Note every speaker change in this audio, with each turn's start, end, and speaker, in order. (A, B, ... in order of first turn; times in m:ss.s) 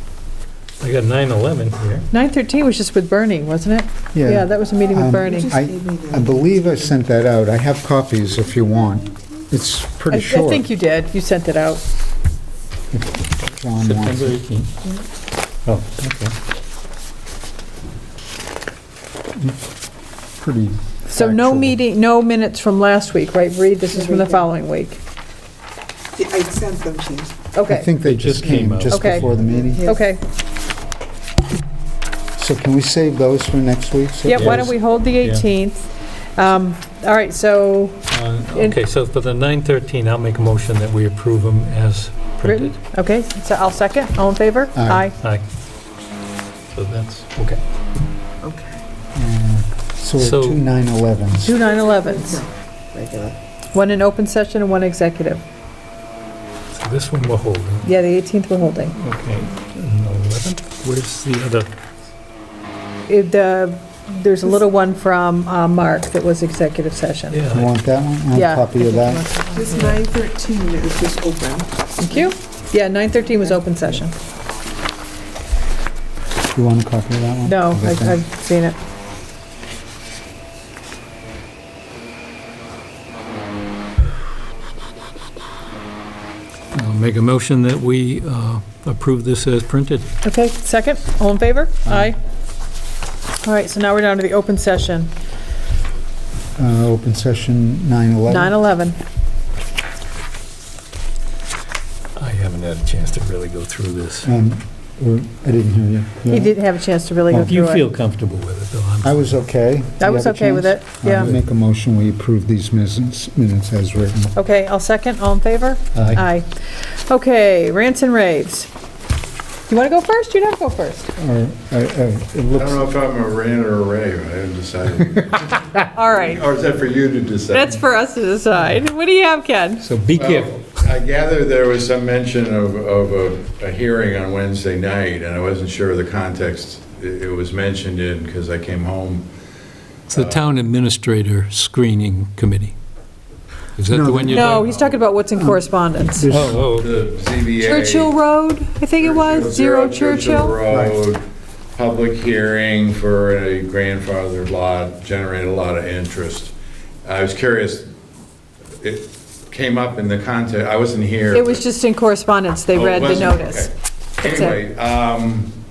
0:00.8-0:02.1 A
0:02.1-0:05.5 B
0:04.1-0:10.7 C
0:05.1-0:07.0 D
0:10.1-0:11.9 B
0:12.9-0:14.4 C
0:13.8-0:14.7 A
0:15.6-0:16.4 A
0:20.4-0:21.8 C
0:21.1-0:25.0 B
0:23.8-0:24.5 D
0:26.2-0:27.4 D
0:27.5-0:27.9 B
0:27.6-0:29.8 C
0:28.0-0:29.4 A
0:28.9-0:29.2 B
0:29.4-0:30.1 D
0:29.8-0:30.2 B
0:32.4-0:34.8 C
0:34.3-0:38.8 B
0:34.3-0:34.7 A
0:35.2-0:35.5 A
0:38.1-0:42.8 A
0:42.5-0:45.2 B
0:44.7-0:45.1 C
0:46.7-0:47.6 A
0:48.4-0:48.8 D
0:49.2-0:51.6 C
0:50.2-0:50.6 A
0:51.4-0:52.4 B
0:51.6-0:53.4 D
0:53.7-0:55.4 B
0:56.7-0:57.9 A
0:57.8-0:59.0 B
0:58.9-1:01.7 A
1:03.1-1:07.4 B
1:07.3-1:07.7 A
1:07.5-1:09.2 C
1:08.3-1:09.8 B
1:09.5-1:12.3 D
1:09.7-1:10.0 A
1:12.0-1:14.1 B
1:16.5-1:18.2 C
1:17.4-1:18.8 B
1:26.7-1:30.1 A
1:30.2-1:32.2 B
1:31.9-1:32.2 C
1:33.4-1:35.1 B
1:36.6-1:38.6 C
1:38.3-1:39.0 B
1:42.2-1:44.3 A
1:44.2-1:46.5 C
1:46.3-1:47.9 B
1:47.3-1:47.6 C
1:47.3-1:49.4 A
1:49.0-1:54.3 C
1:50.0-1:51.3 B
1:51.1-1:51.4 A
1:54.4-1:58.7 B
1:56.0-1:56.2 C
1:59.7-2:01.1 B
2:01.2-2:02.9 C
2:02.6-2:07.8 E
2:06.0-2:06.4 B
2:07.5-2:09.9 B
2:09.8-2:10.7 A
2:10.2-2:19.3 E
2:20.1-2:22.8 A
2:20.1-2:20.4 E
2:23.8-2:24.7 A
2:23.9-2:26.7 C
2:24.3-2:26.4 B
2:26.3-2:27.0 A
2:26.8-2:28.1 E
2:27.6-2:30.6 B
2:29.0-2:37.9 E
2:30.7-2:31.0 C
2:38.8-2:41.6 E
2:41.4-2:44.6 B
2:42.7-2:43.7 E
2:44.2-2:45.5 E